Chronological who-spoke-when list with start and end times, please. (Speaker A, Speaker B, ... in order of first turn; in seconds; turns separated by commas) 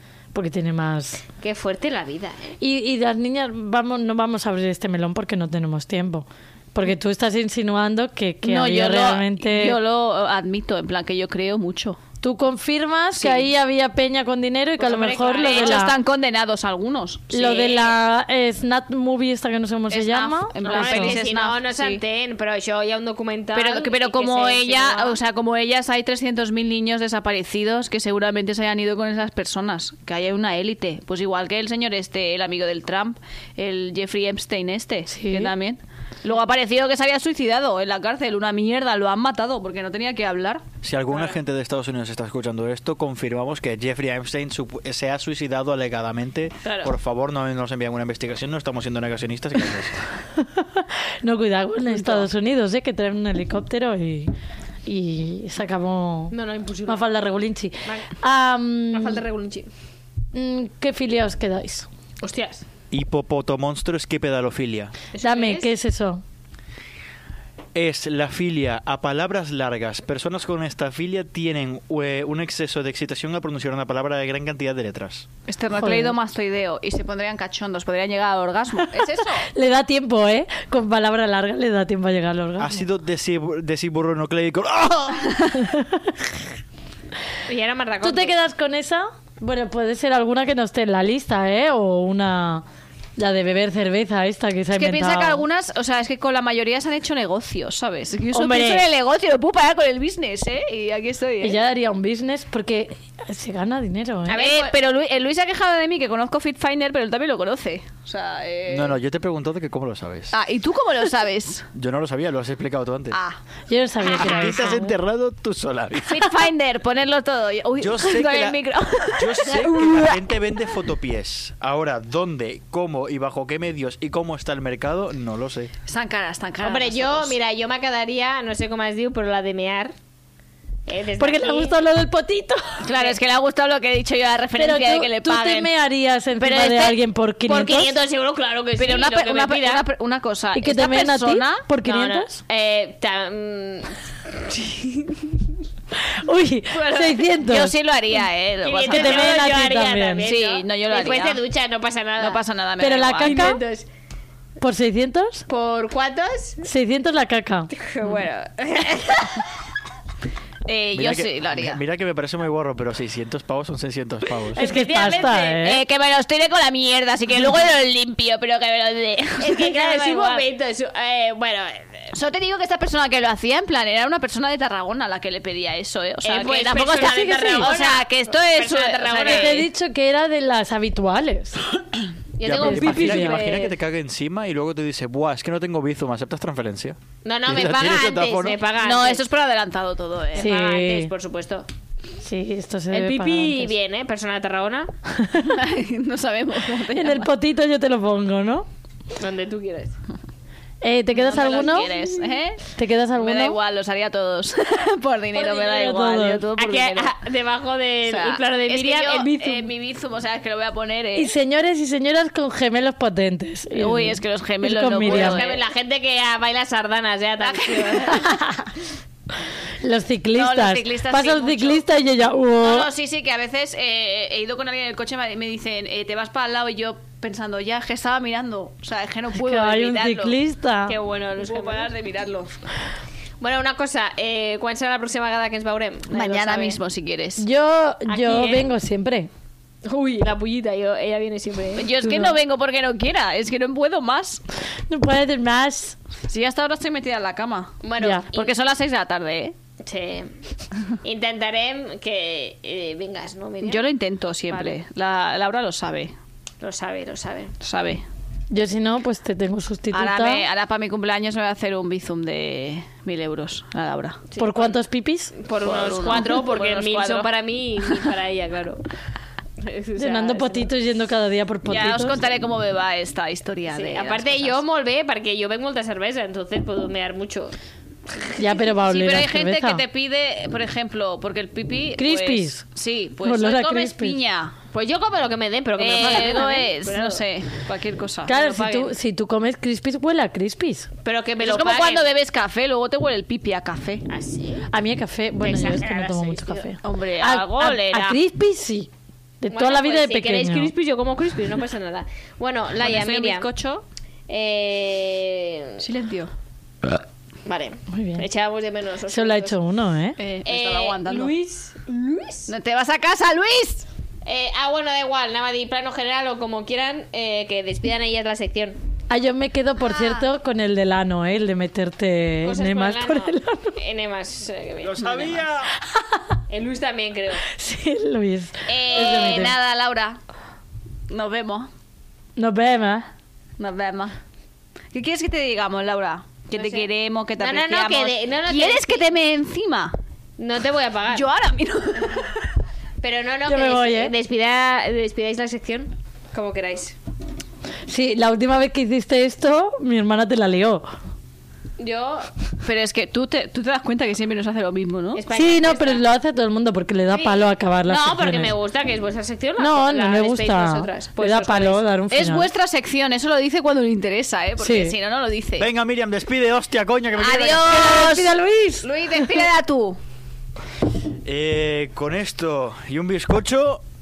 Speaker A: 0.3-1.2, Speaker B: 1.4-2.5, Speaker A: 2.6-9.8, Speaker C: 8.4-12.0, Speaker A: 12.2-15.9, Speaker C: 13.2-13.5, Speaker B: 14.8-15.9, Speaker C: 15.4-17.9, Speaker A: 17.3-21.2, Speaker C: 19.9-22.0, Speaker B: 20.6-25.2, Speaker C: 23.5-40.6, Speaker A: 35.1-35.5, Speaker D: 40.8-49.9, Speaker B: 46.6-46.9, Speaker A: 50.3-54.3, Speaker B: 51.9-52.2, Speaker A: 54.9-56.3, Speaker B: 56.3-57.0, Speaker A: 56.9-59.2, Speaker B: 57.8-58.1, Speaker B: 58.9-59.7, Speaker A: 60.3-61.9, Speaker B: 62.2-62.6, Speaker D: 62.9-64.9, Speaker B: 65.1-65.7, Speaker A: 65.2-66.2, Speaker D: 67.7-75.3, Speaker C: 75.5-79.5, Speaker A: 75.8-76.2, Speaker A: 78.8-82.9, Speaker D: 82.6-85.5, Speaker A: 85.6-86.3, Speaker B: 87.5-88.4, Speaker A: 88.0-92.6, Speaker A: 93.2-95.4, Speaker C: 94.7-101.6, Speaker A: 98.3-98.8, Speaker A: 101.4-104.4, Speaker B: 104.3-104.7, Speaker C: 104.3-109.0, Speaker D: 108.7-110.3, Speaker C: 110.3-111.7, Speaker D: 111.7-113.2, Speaker C: 113.1-113.4, Speaker A: 113.7-114.9, Speaker B: 114.0-114.7, Speaker D: 114.2-116.3, Speaker C: 116.1-120.3, Speaker D: 117.8-118.6, Speaker D: 119.2-125.7, Speaker C: 125.8-127.3, Speaker B: 126.6-129.9, Speaker B: 130.9-131.7, Speaker A: 131.2-132.8, Speaker C: 132.8-135.7, Speaker B: 132.9-133.2, Speaker A: 134.6-137.9, Speaker C: 136.4-137.0, Speaker B: 137.5-139.8, Speaker C: 138.8-141.6, Speaker A: 140.5-142.4, Speaker B: 141.8-145.4, Speaker A: 146.1-147.7, Speaker B: 146.7-147.2, Speaker C: 147.4-149.4, Speaker B: 148.6-152.4, Speaker A: 148.9-150.2, Speaker C: 150.2-151.4, Speaker C: 152.2-153.4, Speaker A: 152.8-153.6, Speaker B: 153.2-153.9, Speaker A: 154.6-155.4, Speaker B: 155.5-156.6, Speaker A: 156.6-157.7, Speaker B: 157.7-159.4, Speaker C: 160.7-161.8, Speaker D: 160.9-164.6, Speaker A: 164.6-165.8, Speaker C: 164.6-170.4, Speaker B: 164.6-165.6, Speaker B: 169.4-172.1, Speaker C: 172.1-179.7, Speaker B: 176.2-179.6, Speaker A: 177.0-177.7, Speaker A: 179.2-181.6, Speaker B: 182.4-183.7, Speaker D: 182.4-188.6, Speaker A: 182.6-183.4, Speaker B: 187.2-189.2, Speaker C: 188.8-190.5, Speaker B: 190.3-191.7, Speaker A: 190.3-191.1, Speaker A: 192.2-193.7, Speaker B: 192.9-194.9, Speaker A: 195.1-195.6, Speaker C: 195.5-197.3, Speaker A: 196.9-198.7, Speaker B: 199.2-199.9, Speaker A: 200.8-201.9, Speaker C: 201.2-207.1, Speaker B: 201.3-202.1, Speaker A: 202.7-203.6, Speaker B: 205.4-205.6, Speaker A: 205.5-206.5, Speaker B: 206.6-209.7, Speaker C: 208.1-211.3, Speaker A: 211.2-215.4, Speaker C: 213.8-215.6, Speaker B: 215.1-218.3, Speaker C: 217.4-218.3, Speaker A: 218.1-218.7, Speaker A: 219.8-222.9, Speaker C: 220.3-221.8, Speaker C: 222.6-230.4, Speaker A: 229.3-230.9, Speaker B: 230.9-231.9, Speaker C: 231.4-232.5, Speaker B: 233.4-236.8, Speaker C: 236.1-237.4, Speaker A: 237.4-239.3, Speaker B: 238.1-238.7, Speaker B: 239.8-242.3, Speaker C: 241.8-244.4, Speaker A: 244.9-246.0, Speaker C: 246.3-249.5, Speaker B: 247.8-248.5, Speaker B: 249.8-250.4, Speaker B: 251.0-253.9, Speaker C: 253.6-256.1, Speaker B: 254.5-254.8, Speaker B: 256.6-257.5, Speaker C: 257.6-258.0, Speaker A: 258.5-260.5, Speaker C: 259.9-264.2, Speaker B: 264.3-264.7, Speaker A: 264.4-265.3, Speaker B: 265.4-268.8, Speaker C: 265.6-267.3, Speaker B: 269.6-270.7, Speaker A: 270.0-272.2, Speaker C: 271.7-274.6, Speaker B: 273.7-277.5, Speaker B: 278.2-278.6, Speaker A: 278.4-279.8, Speaker C: 278.7-284.5, Speaker A: 282.0-282.6, Speaker A: 283.2-284.2, Speaker B: 284.7-287.2, Speaker C: 285.8-288.4, Speaker A: 288.2-290.9, Speaker B: 288.3-288.9, Speaker B: 291.0-292.1, Speaker C: 291.4-294.0, Speaker B: 294.1-294.7, Speaker A: 294.7-298.9, Speaker B: 295.4-296.7, Speaker C: 296.8-298.2, Speaker A: 299.4-300.7, Speaker B: 299.5-303.5, Speaker C: 302.8-303.8, Speaker B: 304.3-305.8, Speaker C: 305.8-306.3, Speaker B: 307.4-309.6, Speaker A: 307.9-308.2, Speaker A: 309.1-310.2, Speaker C: 310.2-311.3, Speaker B: 310.4-312.5, Speaker C: 312.5-313.9, Speaker B: 314.2-318.8, Speaker A: 319.1-323.8, Speaker C: 319.9-320.2, Speaker B: 322.4-325.4, Speaker D: 324.8-325.7, Speaker A: 325.9-326.2, Speaker B: 326.5-327.4, Speaker A: 327.5-329.6, Speaker C: 328.7-330.2, Speaker B: 328.9-329.5, Speaker C: 331.1-331.7, Speaker A: 332.4-333.1, Speaker C: 333.6-334.1, Speaker C: 334.9-339.9, Speaker B: 336.5-336.9, Speaker B: 337.4-339.1, Speaker B: 340.4-341.3, Speaker C: 341.1-342.4, Speaker B: 343.0-347.0, Speaker A: 343.5-344.1, Speaker A: 347.9-350.9, Speaker B: 351.8-352.3, Speaker C: 352.6-355.2, Speaker B: 355.1-356.0, Speaker A: 355.3-358.5, Speaker B: 357.1-361.8, Speaker A: 359.6-362.5, Speaker C: 362.1-365.7, Speaker A: 364.6-364.9, Speaker D: 365.6-368.0, Speaker C: 367.2-370.0, Speaker A: 367.8-369.3, Speaker D: 371.2-373.8